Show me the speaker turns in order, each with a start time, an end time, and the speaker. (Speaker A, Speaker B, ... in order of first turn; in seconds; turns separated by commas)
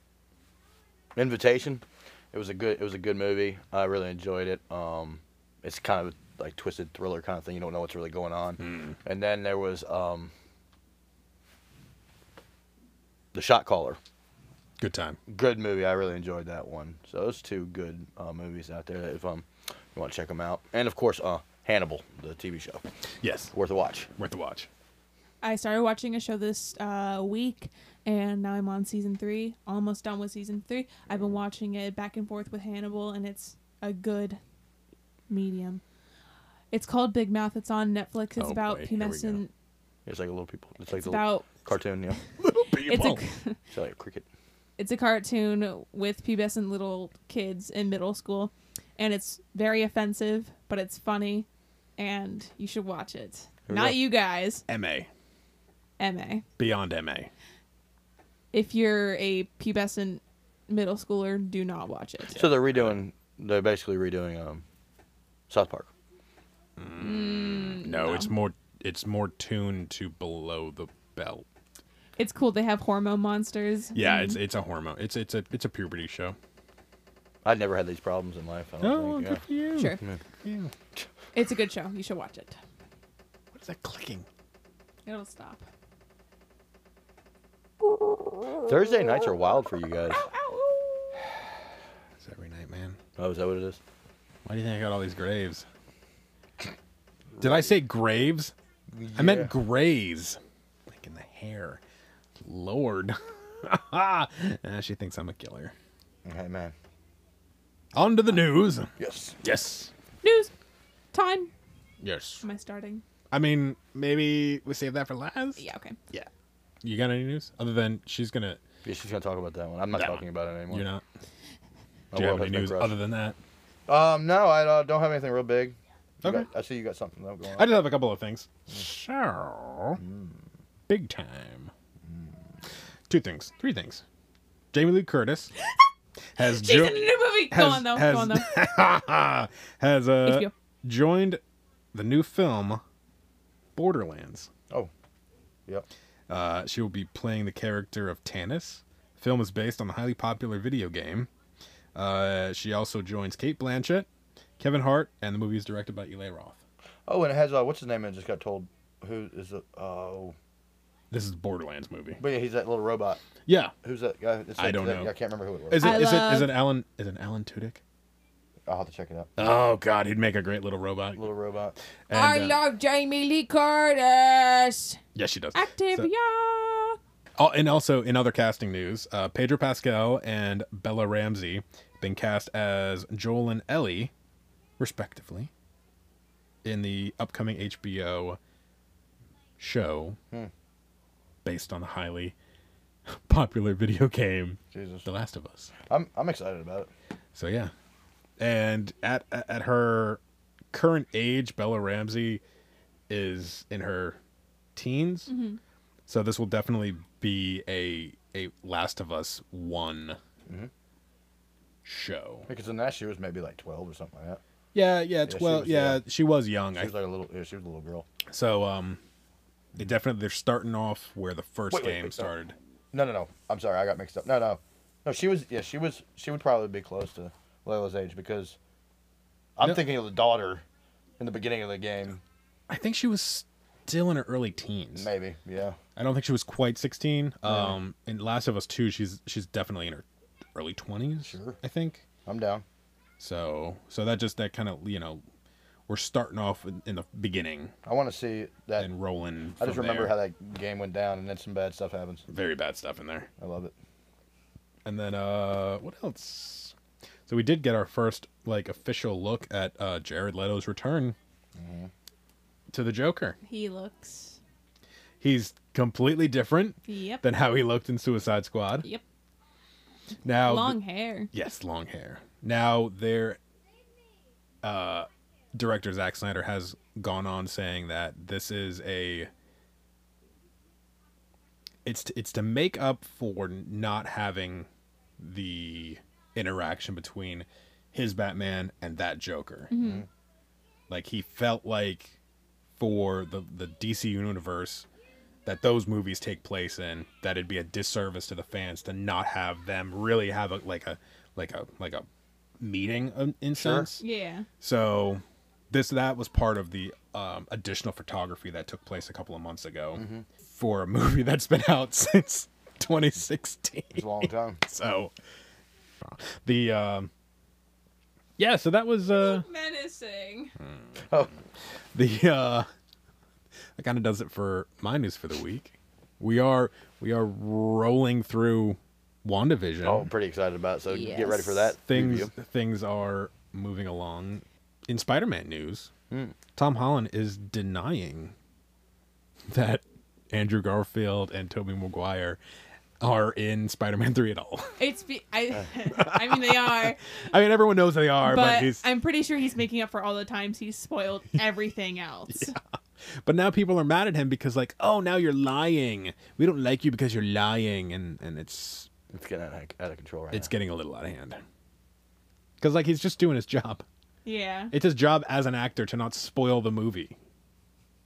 Speaker A: 1.2-10.3, Speaker B: 8.6-9.0, Speaker A: 13.3-14.0, Speaker B: 14.8-15.2, Speaker A: 15.3-22.8, Speaker B: 23.2-23.5, Speaker A: 23.5-24.1, Speaker B: 24.2-24.7, Speaker C: 25.4-34.4, Speaker C: 35.3-35.8, Speaker C: 36.7-39.5, Speaker B: 38.4-39.4, Speaker A: 40.1-42.2, Speaker C: 40.9-41.5, Speaker B: 42.4-43.2, Speaker C: 42.7-43.6, Speaker A: 43.7-44.3, Speaker C: 44.8-54.6, Speaker A: 53.7-54.0, Speaker B: 54.7-55.1, Speaker C: 56.0-56.5, Speaker B: 56.6-57.3, Speaker C: 58.5-62.5, Speaker A: 62.4-64.6, Speaker B: 62.7-63.0, Speaker A: 65.5-65.9, Speaker B: 66.8-71.5, Speaker C: 67.0-68.3, Speaker C: 72.2-74.4, Speaker B: 74.0-76.4, Speaker A: 77.4-79.4, Speaker B: 78.8-80.7, Speaker C: 79.8-80.0, Speaker C: 81.3-82.6, Speaker B: 83.5-84.3, Speaker C: 85.1-85.7, Speaker A: 88.7-90.3, Speaker C: 90.1-91.2, Speaker B: 92.2-93.0, Speaker A: 93.2-93.8, Speaker B: 94.5-95.7, Speaker A: 97.3-97.7, Speaker B: 97.4-98.5, Speaker A: 98.9-99.5, Speaker B: 99.2-101.8, Speaker B: 102.4-105.7, Speaker A: 106.2-106.7, Speaker B: 107.9-108.9, Speaker A: 109.0-109.4, Speaker B: 109.4-109.9, Speaker C: 110.2-110.5, Speaker C: 111.1-111.5, Speaker B: 112.0-112.4, Speaker C: 112.4-113.0, Speaker B: 113.3-116.3, Speaker C: 115.6-116.0, Speaker B: 116.8-118.6, Speaker A: 118.8-120.9, Speaker B: 120.0-121.0, Speaker A: 122.1-123.0, Speaker B: 122.1-123.4, Speaker A: 123.9-127.7, Speaker B: 127.6-130.0, Speaker A: 130.0-130.4, Speaker B: 130.9-131.7, Speaker A: 132.1-132.3, Speaker B: 133.1-134.0, Speaker B: 134.7-135.5, Speaker B: 136.4-141.4, Speaker C: 136.4-138.5, Speaker C: 140.2-140.5, Speaker B: 141.9-142.8, Speaker B: 143.8-144.5, Speaker B: 146.3-151.3, Speaker B: 151.9-154.1, Speaker B: 154.6-156.6, Speaker A: 157.1-160.3, Speaker B: 161.1-162.2, Speaker A: 162.2-163.2, Speaker B: 163.5-163.7, Speaker A: 163.8-165.8, Speaker B: 164.6-165.1, Speaker B: 165.7-167.8, Speaker C: 165.8-166.5, Speaker A: 168.7-169.3, Speaker B: 169.4-171.3, Speaker A: 171.2-171.8, Speaker B: 172.1-172.6, Speaker C: 172.1-175.0, Speaker B: 175.2-176.1, Speaker C: 175.5-177.0, Speaker B: 177.4-184.1, Speaker B: 184.8-185.5, Speaker B: 186.6-188.4, Speaker B: 189.6-190.2, Speaker B: 191.4-192.3, Speaker B: 193.1-195.7, Speaker A: 194.7-195.1, Speaker A: 195.9-196.9, Speaker B: 197.3-197.7, Speaker B: 198.4-200.2, Speaker B: 200.7-202.4, Speaker B: 203.1-204.2, Speaker B: 204.8-205.3, Speaker C: 205.3-205.6, Speaker B: 206.1-210.2, Speaker B: 211.8-212.5, Speaker A: 212.5-214.4, Speaker B: 214.7-216.9, Speaker A: 215.3-216.0, Speaker A: 216.8-218.1, Speaker B: 218.3-219.0, Speaker B: 219.8-222.6, Speaker A: 221.7-222.3, Speaker A: 222.9-228.6, Speaker A: 229.6-230.6, Speaker A: 231.2-232.2, Speaker B: 232.7-235.1, Speaker A: 235.0-235.8, Speaker B: 236.0-242.1, Speaker A: 237.4-237.8, Speaker A: 241.2-241.6, Speaker A: 242.3-242.6, Speaker B: 243.2-245.2, Speaker B: 245.9-247.7, Speaker A: 247.9-248.9, Speaker B: 248.8-250.2, Speaker A: 249.6-252.2, Speaker B: 252.3-253.3, Speaker A: 253.4-253.7, Speaker B: 254.8-256.7, Speaker B: 257.3-261.2, Speaker A: 261.6-261.9, Speaker B: 262.7-263.4, Speaker C: 263.4-264.4, Speaker B: 265.2-268.9, Speaker C: 266.9-267.2, Speaker B: 270.2-270.8, Speaker C: 270.4-271.3, Speaker B: 271.3-273.4, Speaker B: 274.6-279.3, Speaker B: 281.9-284.7, Speaker B: 285.2-289.7, Speaker C: 289.7-290.1, Speaker A: 289.8-290.1, Speaker B: 290.9-292.2, Speaker B: 292.8-294.9, Speaker B: 295.5-302.1, Speaker B: 302.6-304.0, Speaker A: 303.6-303.9, Speaker C: 304.0-304.5, Speaker B: 304.6-315.1, Speaker A: 310.0-310.3, Speaker A: 313.9-314.6, Speaker B: 316.0-317.1, Speaker B: 318.4-319.4, Speaker C: 319.1-320.5, Speaker B: 320.6-321.1, Speaker A: 321.1-321.3, Speaker B: 321.9-322.7, Speaker B: 323.8-330.1, Speaker A: 329.8-332.3, Speaker C: 330.9-331.7, Speaker B: 331.9-335.9, Speaker A: 336.1-336.4, Speaker B: 336.6-338.3, Speaker B: 339.5-342.4, Speaker B: 343.0-344.8, Speaker C: 344.8-347.3, Speaker B: 345.9-348.9, Speaker C: 348.2-352.6, Speaker B: 352.3-352.6, Speaker B: 353.2-358.9, Speaker A: 359.1-360.5, Speaker B: 360.3-361.4, Speaker B: 362.6-363.8, Speaker C: 364.2-364.7, Speaker B: 364.7-367.2